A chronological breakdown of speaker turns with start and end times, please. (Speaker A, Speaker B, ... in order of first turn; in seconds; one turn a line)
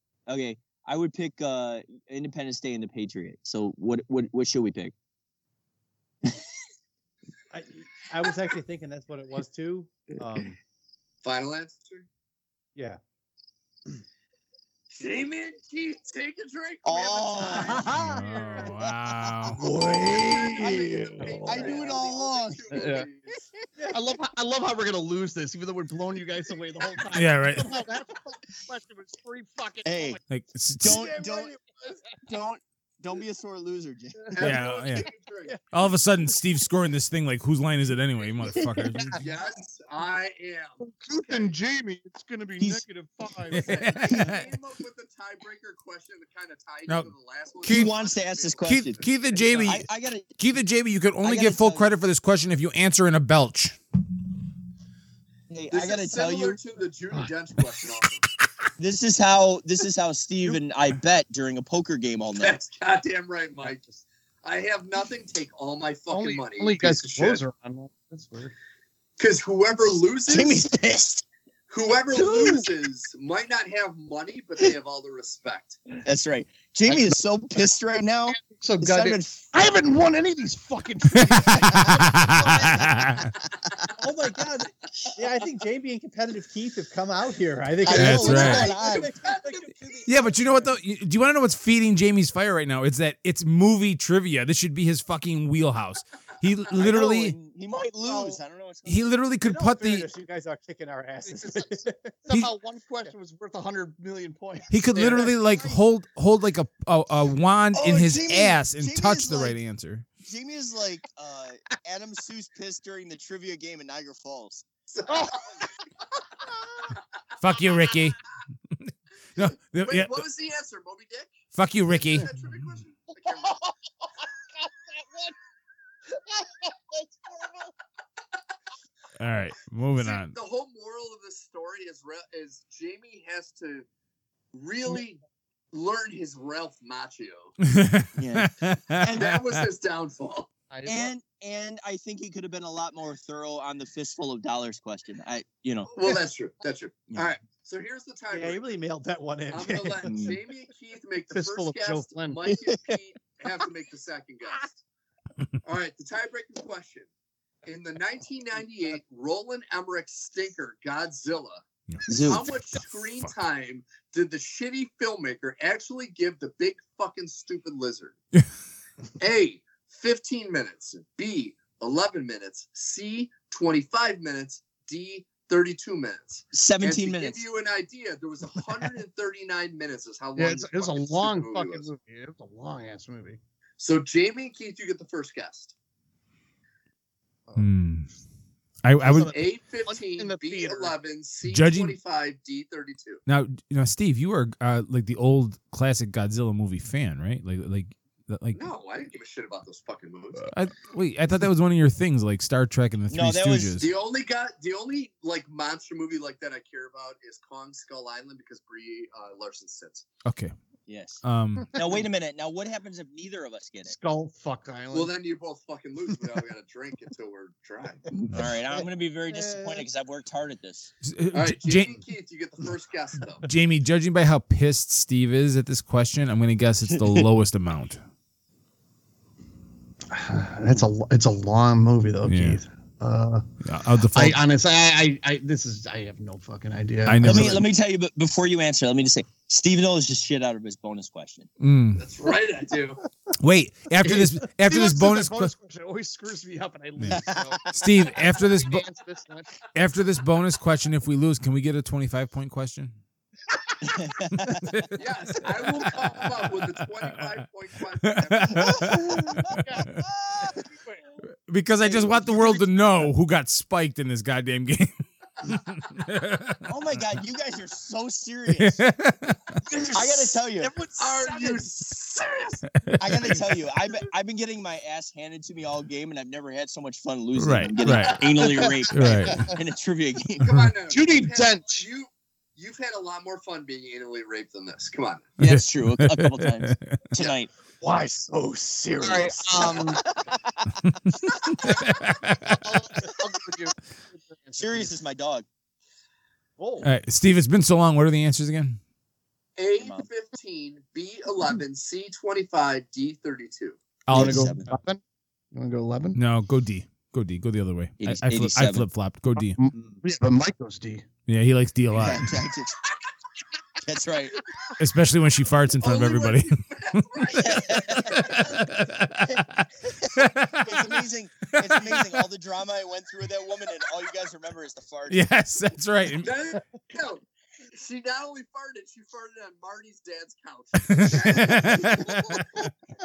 Speaker A: 0.3-4.9
Speaker B: 7.5-10.6
Speaker C: 11.2-12.1
Speaker C: 14.9-17.8
Speaker A: 16.8-17.9
Speaker D: 17.6-18.4
Speaker B: 17.8-18.6
Speaker E: 17.9-19.6
Speaker D: 19.5-21.9
Speaker C: 20.0-23.4
Speaker A: 21.4-22.9
Speaker D: 22.7-23.1
Speaker D: 23.9-30.2
Speaker E: 27.1-27.7
Speaker A: 29.8-30.2
Speaker E: 30.3-31.1
Speaker A: 30.8-31.5
Speaker C: 30.9-31.8
Speaker A: 32.2-34.4
Speaker C: 34.3-35.6
Speaker E: 34.4-35.1
Speaker E: 35.7-39.2
Speaker C: 39.2-40.8
Speaker D: 40.8-44.1
Speaker E: 43.5-44.5
Speaker C: 43.7-48.8
Speaker A: 44.1-44.4
Speaker E: 46.9-47.1
Speaker E: 47.6-47.9
Speaker A: 47.6-50.4
Speaker E: 48.6-53.8
Speaker A: 51.2-51.9
Speaker A: 55.5-56.6
Speaker C: 55.7-58.2
Speaker A: 58.8-62.6
Speaker C: 62.4-63.9
Speaker D: 63.6-64.0
Speaker C: 64.4-67.4
Speaker D: 66.1-68.5
Speaker C: 69.2-70.6
Speaker A: 70.3-71.2
Speaker C: 71.7-75.8
Speaker A: 72.2-72.7
Speaker A: 76.0-79.5
Speaker D: 78.3-83.3
Speaker E: 81.1-83.3
Speaker B: 84.0-90.8
Speaker A: 87.8-89.1
Speaker E: 87.9-88.7
Speaker C: 88.5-89.9
Speaker E: 90.0-97.3
Speaker A: 96.7-99.2
Speaker D: 98.1-98.4
Speaker E: 98.8-100.1
Speaker B: 99.4-102.5
Speaker D: 101.2-105.8
Speaker E: 104.7-110.1
Speaker A: 107.7-109.6
Speaker A: 110.2-114.6
Speaker C: 114.9-115.6
Speaker D: 115.1-115.5
Speaker E: 117.4-118.2
Speaker E: 118.7-120.2
Speaker C: 119.8-123.6
Speaker E: 121.5-122.5
Speaker D: 123.3-123.7
Speaker D: 124.5-125.3
Speaker D: 126.1-127.7
Speaker E: 129.2-130.4
Speaker C: 129.9-133.9
Speaker C: 134.5-135.2
Speaker C: 135.7-137.5
Speaker E: 137.6-139.4
Speaker A: 138.2-139.3
Speaker C: 139.2-140.5
Speaker D: 140.7-141.1
Speaker A: 140.8-145.9
Speaker C: 145.9-148.8
Speaker B: 148.3-150.2
Speaker C: 149.5-154.8
Speaker A: 150.1-150.4
Speaker D: 151.3-152.4
Speaker A: 152.5-153.0
Speaker C: 155.6-157.1
Speaker C: 157.6-161.6
Speaker E: 161.9-163.3
Speaker A: 162.1-162.4
Speaker C: 162.2-168.2
Speaker C: 169.2-181.9
Speaker A: 176.5-177.4
Speaker D: 180.3-183.4
Speaker C: 183.8-185.7
Speaker E: 187.6-188.1
Speaker E: 188.8-189.4
Speaker D: 189.0-190.9
Speaker C: 189.3-193.2
Speaker E: 191.4-192.0
Speaker E: 193.3-198.6
Speaker C: 198.5-200.5
Speaker E: 200.4-203.9
Speaker A: 203.1-203.8
Speaker C: 203.8-210.1
Speaker E: 210.2-210.5
Speaker A: 210.9-213.9
Speaker E: 211.2-211.8
Speaker D: 213.8-215.1
Speaker C: 214.9-218.0
Speaker A: 218.1-220.9
Speaker D: 219.3-219.8
Speaker E: 221.0-221.9
Speaker C: 221.3-223.5
Speaker E: 223.4-228.0
Speaker A: 227.0-227.2
Speaker D: 230.1-233.4
Speaker E: 232.2-232.6
Speaker E: 233.6-234.4
Speaker D: 234.1-237.7
Speaker E: 237.1-237.7
Speaker A: 237.2-241.5
Speaker E: 241.6-242.0
Speaker C: 242.0-243.0
Speaker E: 243.4-245.5
Speaker D: 244.0-247.6
Speaker E: 247.0-248.8
Speaker A: 247.1-247.6
Speaker D: 248.2-249.6
Speaker E: 249.7-253.0
Speaker A: 253.8-254.6
Speaker E: 254.5-255.0
Speaker C: 255.0-259.2
Speaker E: 256.5-257.2
Speaker E: 258.1-260.0
Speaker D: 258.5-261.1
Speaker E: 261.5-266.7
Speaker D: 261.9-262.6
Speaker A: 266.7-268.8
Speaker E: 268.5-269.6
Speaker D: 269.7-270.0
Speaker A: 269.9-270.7
Speaker D: 270.6-271.6
Speaker C: 271.0-272.6
Speaker E: 272.8-273.3
Speaker A: 273.0-280.4
Speaker E: 277.3-278.3
Speaker C: 277.8-278.5
Speaker D: 278.4-279.6
Speaker E: 278.9-279.6
Speaker C: 280.4-285.3
Speaker E: 280.4-280.7
Speaker D: 280.9-281.8
Speaker A: 285.4-287.5
Speaker E: 285.4-287.3
Speaker D: 287.8-290.0
Speaker A: 289.1-290.4
Speaker D: 291.6-294.9
Speaker E: 291.9-292.6
Speaker A: 294.6-295.4
Speaker B: 296.6-296.9
Speaker E: 296.8-298.8
Speaker C: 299.6-303.8
Speaker A: 299.8-300.1
Speaker E: 304.1-304.5
Speaker A: 304.1-304.7
Speaker D: 304.1-305.0
Speaker D: 305.5-306.2
Speaker E: 306.1-309.6
Speaker A: 308.0-308.9
Speaker D: 309.4-311.1
Speaker B: 309.8-310.0
Speaker E: 311.3-312.3
Speaker A: 311.9-312.8
Speaker A: 313.8-314.4
Speaker E: 314.8-316.6
Speaker C: 315.8-318.6
Speaker A: 317.3-318.7
Speaker E: 318.4-322.1
Speaker A: 319.3-325.3
Speaker E: 325.1-326.3
Speaker C: 326.2-332.5
Speaker E: 330.9-332.4